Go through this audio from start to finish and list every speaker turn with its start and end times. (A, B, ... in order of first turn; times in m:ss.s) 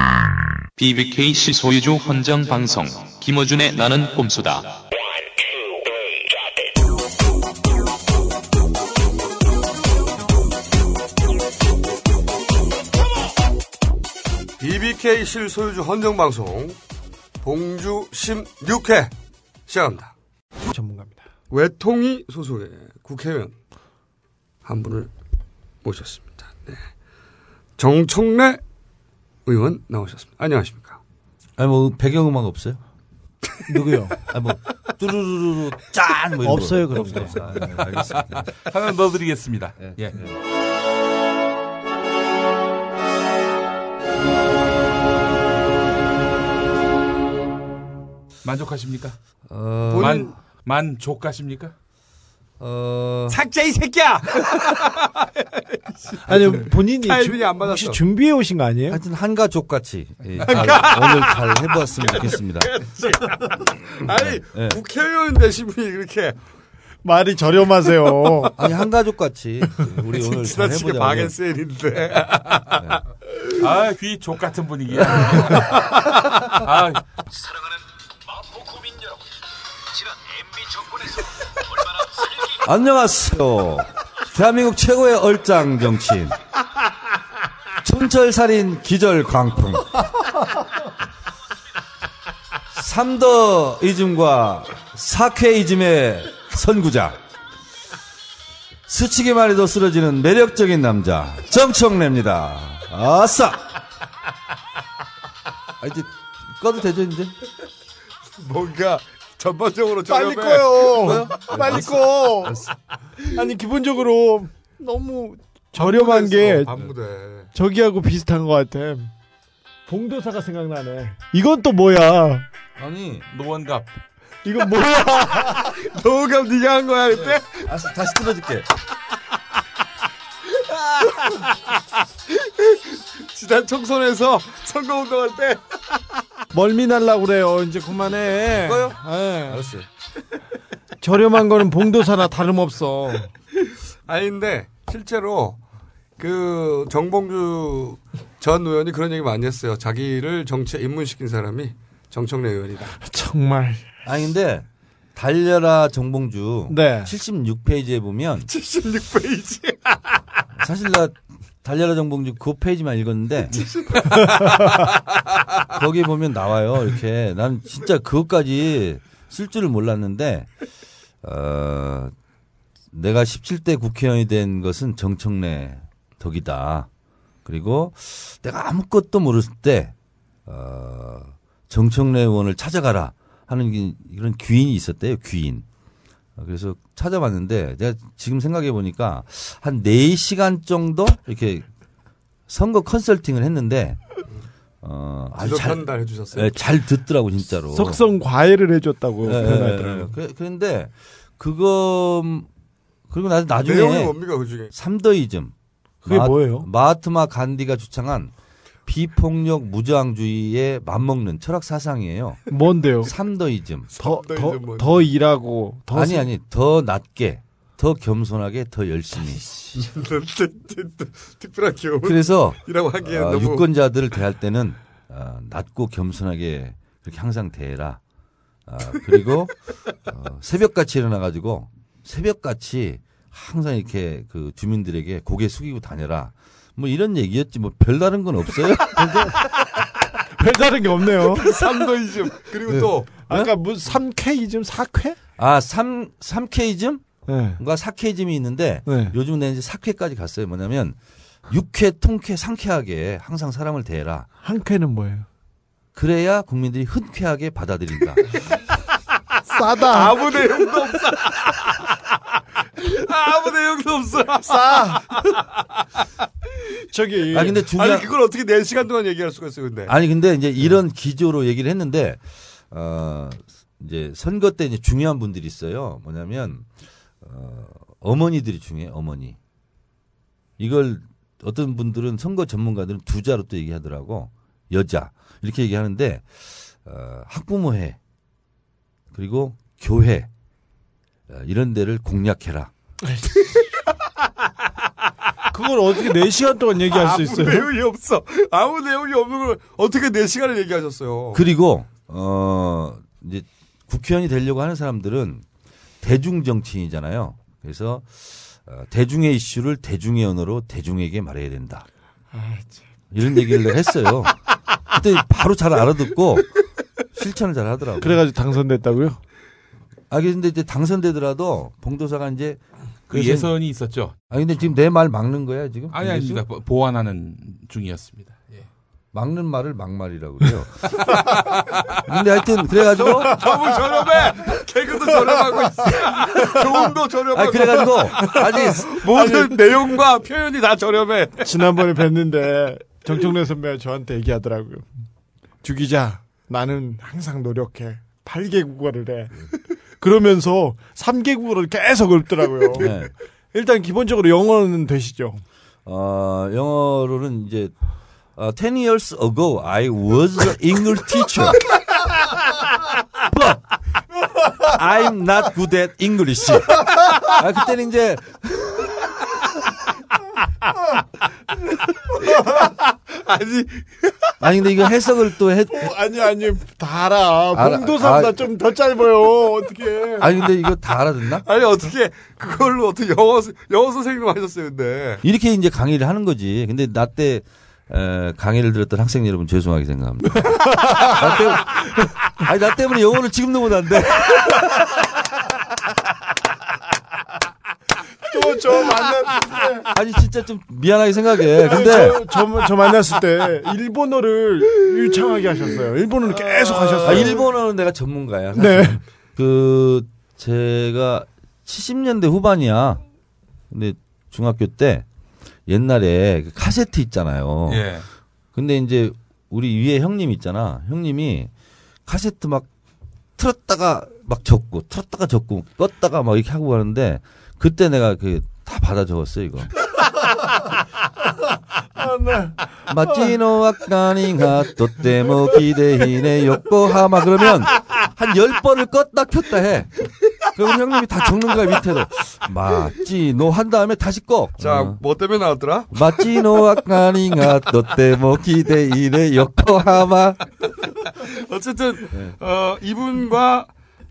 0:00.8-0:04.8 A
0:14.6-0:16.8 B
0:17.4-0:19.1 B
0:19.7-0:20.1 B
0:20.6-0:21.3 C
0:21.5-0:23.5 B
0:24.7-0:25.1 B
0:25.8-0:26.8 B
0:27.8-0:28.6 B
0:29.5-0:31.0 B
0:31.6-0:32.8 D
0:33.7-0:34.2 C
0:34.3-0:38.5 D
0:36.4-0:37.9 C
0:38.2-0:40.3 E
0:39.8-0:40.3 D
0:48.4-0:49.2 E
0:49.5-0:50.2 D
0:49.9-0:50.3 B
0:50.0-0:51.7 E
0:52.6-0:53.4 D
0:53.3-0:58.0 B
0:56.2-0:59.0 C
0:58.9-1:02.7 D
1:00.4-1:06.4 B
1:04.1-1:04.8 D
1:07.0-1:08.7 C
1:08.6-1:11.3 D
1:10.1-1:13.0 B
1:13.6-1:15.9 E
1:15.0-1:15.5 D
1:16.5-1:17.0 E
1:22.6-1:26.4 D
1:27.8-1:29.8 D
1:32.7-1:37.2 D
1:38.9-1:43.7 D
1:45.8-1:47.3 D
1:48.4-1:51.9 B
1:50.1-1:52.6 C
1:51.0-1:52.7 D
1:53.3-1:56.7 C
1:55.8-1:57.5 B
1:57.5-1:59.1 C
1:59.9-2:02.5 C
2:02.8-2:03.2 D
2:03.3-2:03.9 E
2:04.4-2:05.7 C
2:05.5-2:07.7 B
2:07.6-2:08.7 D
2:10.6-2:11.6 B
2:12.3-2:15.6 B
2:16.5-2:19.7 C
2:18.6-2:19.9 D
2:21.0-2:23.3 C
2:24.1-2:25.6 B
2:26.2-2:33.0 B
2:33.0-2:33.8 C
2:34.0-2:38.5 D
2:36.7-2:37.1 C
2:38.5-2:40.1 B
2:40.6-2:43.6 D
2:43.5-2:45.0 B
2:45.7-2:50.5 D
2:51.2-2:52.1 D
2:52.9-2:56.9 D
2:57.4-2:59.9 D
3:00.5-3:05.6 D
3:06.4-3:11.7 D
3:12.5-3:14.0 D
3:14.8-3:18.0 D
3:15.4-3:16.6 B
3:17.7-3:20.1 C
3:19.2-3:22.5 D
3:23.1-3:24.2 D
3:23.6-3:24.7 B
3:24.7-3:28.3 D
3:26.0-3:26.7 C
3:28.9-3:32.4 D
3:32.5-3:33.1 C
3:33.0-3:33.9 D
3:33.9-3:35.1 B
3:34.0-3:36.3 C
3:35.9-3:39.4 D
3:39.7-3:43.7 B
3:42.0-3:48.0 D
3:48.7-3:59.4 D
3:58.9-3:59.5 C
4:00.4-4:01.7 C
4:01.4-4:03.1 B
4:02.7-4:05.2 C
4:05.4-4:07.0 D
4:07.3-4:07.6 C
4:07.6-4:11.0 D
4:08.9-4:09.2 C
4:11.5-4:14.3 D
4:14.4-4:15.3 C
4:16.0-4:18.2 D
4:19.5-4:20.4 C
4:19.8-4:22.1 B
4:22.8-4:25.4 B
4:24.5-4:25.2 C
4:26.9-4:27.6 C
4:27.3-4:28.1 D
4:27.7-4:29.9 B
4:29.9-4:36.7 D
4:37.2-4:39.4 D
4:40.6-4:46.3 D
4:46.8-4:48.0 D
4:49.1-4:50.3 D
4:51.3-4:52.7 D
4:53.1-4:53.4 C
4:55.5-4:57.7 C
4:56.9-5:01.4 B
5:01.3-5:05.4 D
5:06.0-5:11.9 D
5:12.3-5:12.9 C
5:13.1-5:14.4 D
5:14.9-5:16.5 D
5:17.1-5:18.2 D
5:18.0-5:19.2 C
5:20.1-5:23.5 D
5:23.1-5:24.1 E
5:24.3-5:26.4 D
5:25.9-5:28.7 E
5:29.1-5:31.2 D
5:32.0-5:33.5 D
5:32.8-5:41.7 B
5:33.4-5:33.8 C
5:35.3-5:36.6 C
5:37.3-5:38.9 D
5:38.3-5:39.9 C
5:41.4-5:44.9 C
5:45.6-5:53.0 C
5:52.7-5:53.1 D
5:53.5-5:55.4 C
5:55.8-5:57.7 D
5:58.4-6:01.7 D
6:03.2-6:03.7 D
6:04.6-6:08.7 D
6:12.3-6:12.7 C
6:12.6-6:14.2 B
6:14.4-6:15.9 D
6:15.7-6:20.4 C
6:17.5-6:18.5 D
6:20.2-6:21.5 D
6:21.4-6:25.2 B
6:25.2-6:34.8 D
6:30.8-6:31.1 C
6:38.3-6:39.9 C
6:39.9-6:42.2 D
6:41.6-6:47.4 C
6:46.4-6:47.4 B
6:47.0-6:53.0 D
6:48.5-6:49.0 C
6:53.7-6:55.1 D
6:55.7-6:57.9 D
6:57.7-6:58.1 E
6:58.6-7:01.5 D
7:02.1-7:02.7 D
7:03.4-7:09.7 D
7:12.0-7:12.7 C
7:12.9-7:25.0 D
7:24.6-7:26.2 B
7:25.9-7:30.4 D
7:31.1-7:33.7 B